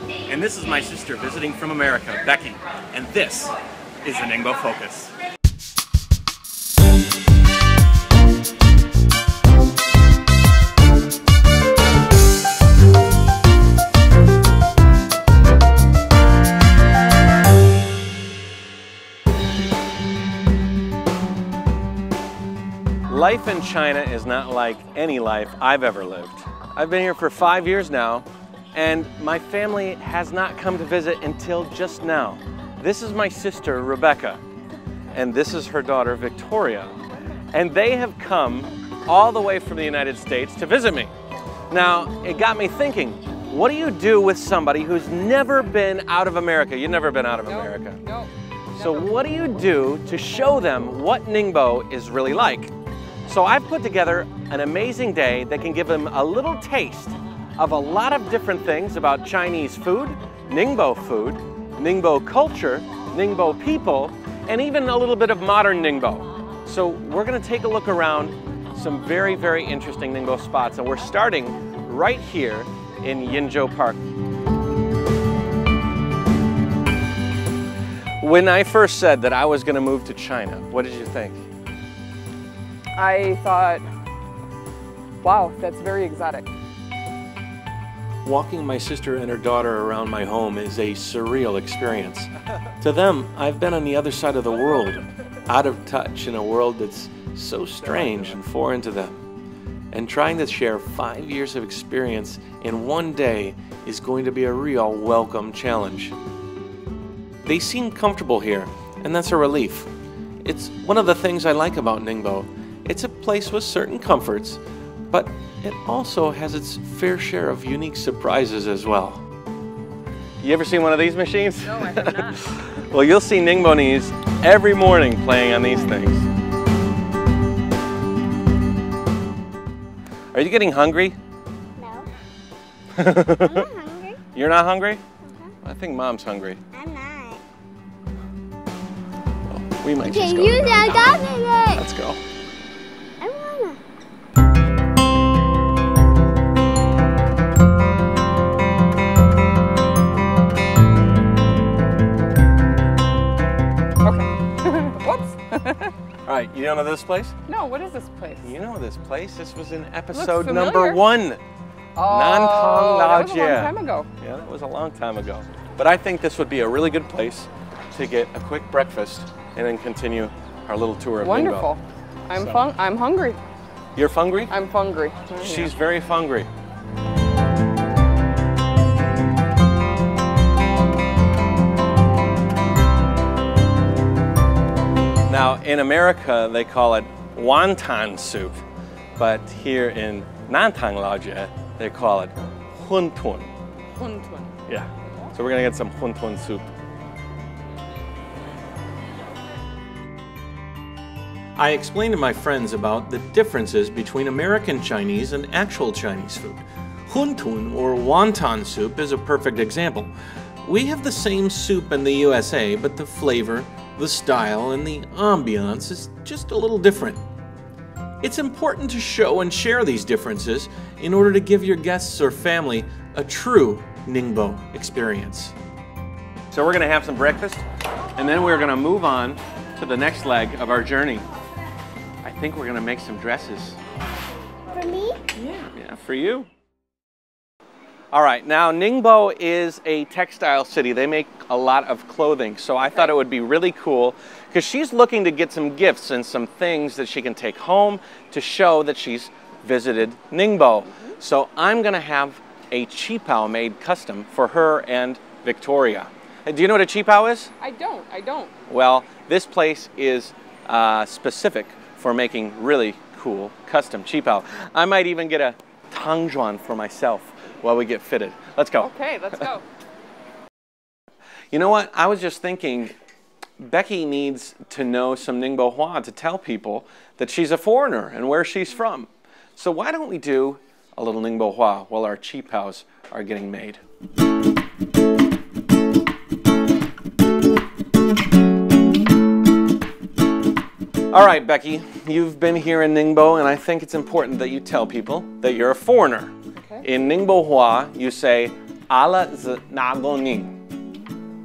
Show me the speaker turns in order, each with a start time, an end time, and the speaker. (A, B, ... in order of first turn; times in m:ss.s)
0:00.3-0:05.1 A
0:23.1-0:34.4 A
0:35.1-0:37.0 A
0:37.5-0:41.1 A
0:41.7-0:48.0 A
0:47.5-0:49.1 B
0:48.7-0:52.7 A
0:53.3-1:14.0 A
1:18.2-1:21.4 A
1:23.0-1:23.8 B
1:25.2-1:26.5 B
1:28.2-1:39.2 A
1:39.9-1:46.2 A
1:47.4-1:49.9 A
1:50.4-1:59.2 A
2:00.4-2:06.3 A
2:10.3-2:11.2 A
2:11.8-2:12.1 C
2:13.0-2:13.7 A
2:13.4-2:14.2 C
2:14.3-2:15.0 A
2:15.2-2:15.5 C
2:15.6-2:16.6 A
2:16.7-2:17.4 C
2:19.5-2:22.2 A
2:20.0-2:21.8 C
2:23.2-2:23.8 C
2:34.0-2:35.9 B
2:36.2-2:37.4 A
2:37.5-2:38.5 B
2:38.4-2:41.4 A
2:40.1-2:41.0 B
2:42.0-2:44.1 B
2:42.1-2:51.7 A
2:51.2-2:53.4 B
2:52.3-2:52.6 A
2:54.0-2:54.5 A
2:54.5-2:55.7 B
2:55.4-2:56.5 A
3:05.3-3:08.6 A
3:09.2-3:13.5 A
3:14.0-3:14.5 B
3:14.7-3:16.7 A
3:21.6-3:30.1 A
3:30.6-3:37.2 A
3:38.2-3:45.6 A
3:46.5-3:47.6 A
3:48.2-3:51.2 A
3:52.2-3:53.8 A
3:54.7-3:55.2 C
3:55.3-3:55.7 B
3:55.7-3:56.5 A
3:58.1-4:17.5 A
4:17.6-4:18.5 B
4:18.7-4:29.4 A
4:28.8-4:29.6 B
4:31.5-4:32.9 A
4:33.6-4:43.8 A
4:51.1-5:00.5 A
4:56.6-4:56.8 B